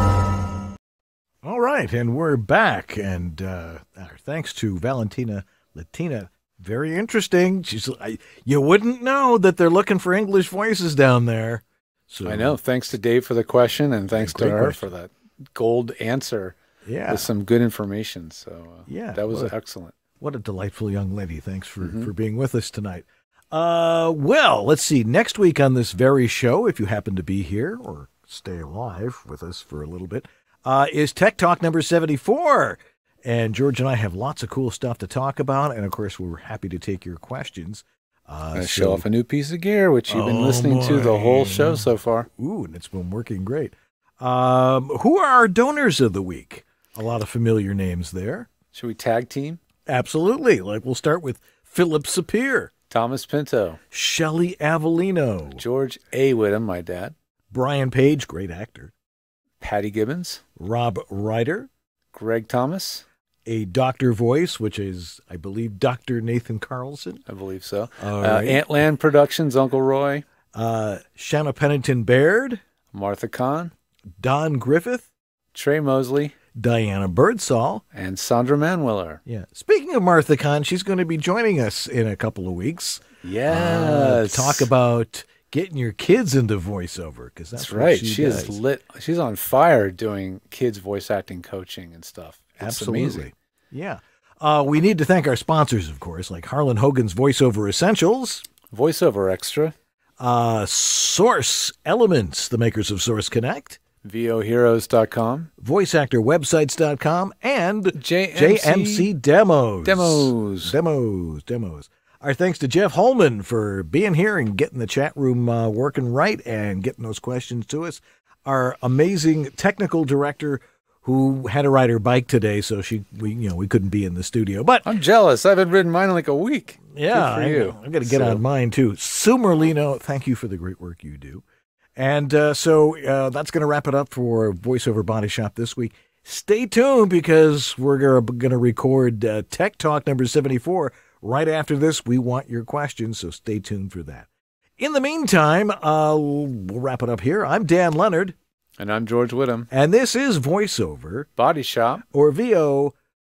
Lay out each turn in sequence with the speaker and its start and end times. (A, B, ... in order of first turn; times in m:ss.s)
0:01.4-0:12.6 A
0:12.2-0:16.6 B
0:14.1-0:14.9 A
0:16.8-0:17.3 A
0:17.1-0:19.9 B
0:18.9-0:19.5 A
0:20.2-0:39.0 A
0:21.8-0:22.1 B
0:38.5-0:42.3 B
0:40.1-0:48.5 A
0:48.7-0:49.6 B
0:49.9-0:52.7 A
0:52.9-0:53.8 B
0:53.9-0:55.6 A
0:55.6-0:57.1 B
0:57.5-0:58.9 A
0:59.6-1:00.4 B
1:00.6-1:01.7 A
1:02.1-1:03.0 B
1:03.4-1:07.2 A
1:07.3-1:10.2 B
1:08.0-1:08.6 A
1:10.5-1:12.6 A
1:12.9-1:13.7 B
1:14.2-1:15.1 A
1:15.5-1:16.3 B
1:16.6-1:17.8 A
1:17.9-1:19.2 B
1:19.2-1:28.6 A
1:23.2-1:24.7 B
1:27.6-1:33.3 B
1:32.6-1:38.4 A
1:38.7-1:39.7 B
1:40.2-1:43.8 A
1:44.0-1:45.5 B
1:45.6-2:04.9 A
1:48.0-1:49.1 B
1:49.8-1:50.7 B
2:04.8-2:08.4 B
2:06.9-2:11.4 A
2:12.0-2:24.3 A
2:24.8-2:28.4 A
2:28.8-2:29.7 B
2:29.7-2:31.3 A
2:31.4-2:32.0 B
2:32.1-2:32.9 A